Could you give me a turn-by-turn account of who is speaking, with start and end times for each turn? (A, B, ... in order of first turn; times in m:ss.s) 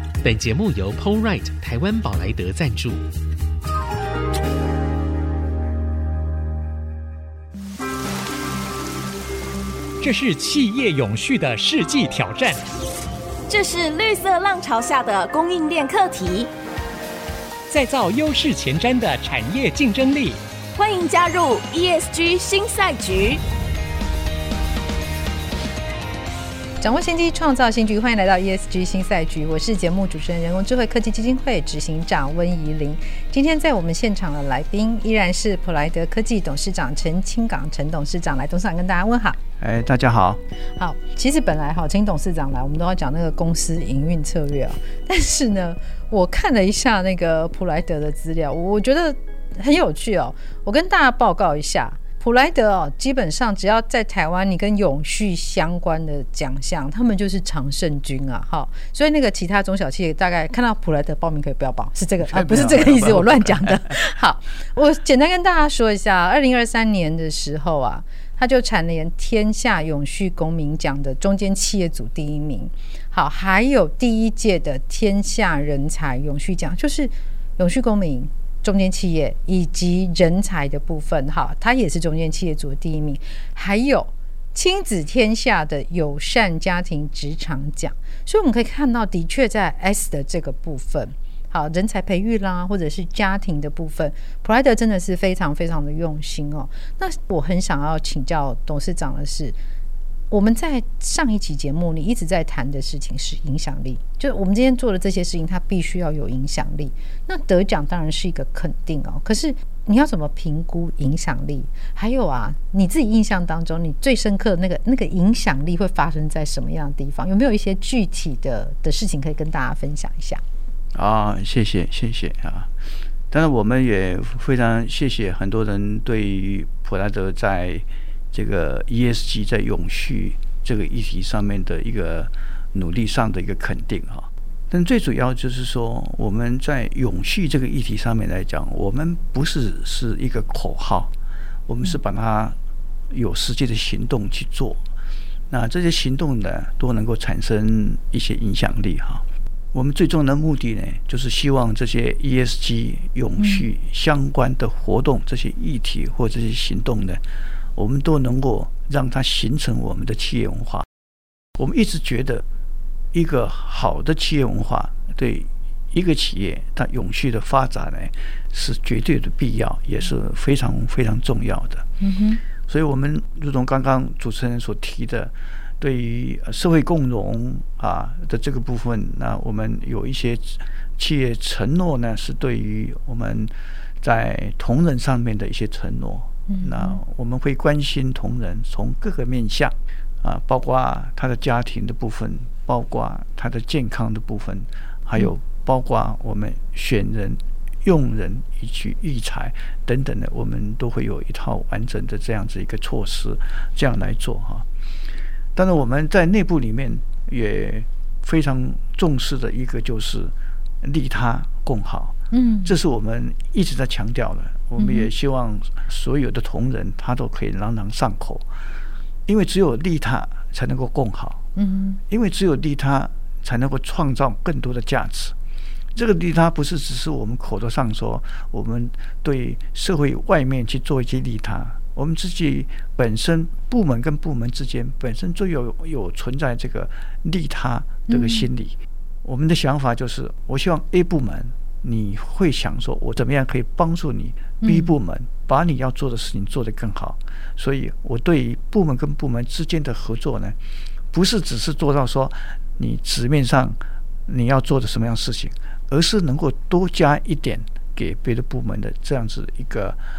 0:00.2-0:03.0 A
0:10.0-0:12.6 B
0:13.5-0:16.5 C
0:17.7-0:20.4 B
0:20.8-0:23.4 C
0:26.8-0:39.4 D
0:39.6-0:40.4 E
0:40.8-1:39.6 D
1:02.2-1:04.0 E
1:40.3-2:00.4 D
2:00.9-2:02.7 E
2:03.3-2:21.1 E
2:21.7-2:22.6 E
2:23.1-2:24.8 E
2:25.5-2:37.2 E
2:33.4-2:33.7 D
2:37.8-2:40.9 E
2:41.6-2:42.4 E
2:43.1-2:51.8 E
2:52.0-2:52.4 D
2:52.7-3:24.7 E
3:06.5-3:07.0 D
3:25.6-3:38.5 E
3:32.3-3:32.7 D
3:34.8-3:35.1 D
3:39.3-3:41.4 E
3:41.6-3:42.0 D
3:42.1-3:45.4 E
3:46.0-4:10.6 E
3:58.1-3:58.5 D
4:04.6-4:05.0 D
4:11.1-4:20.0 E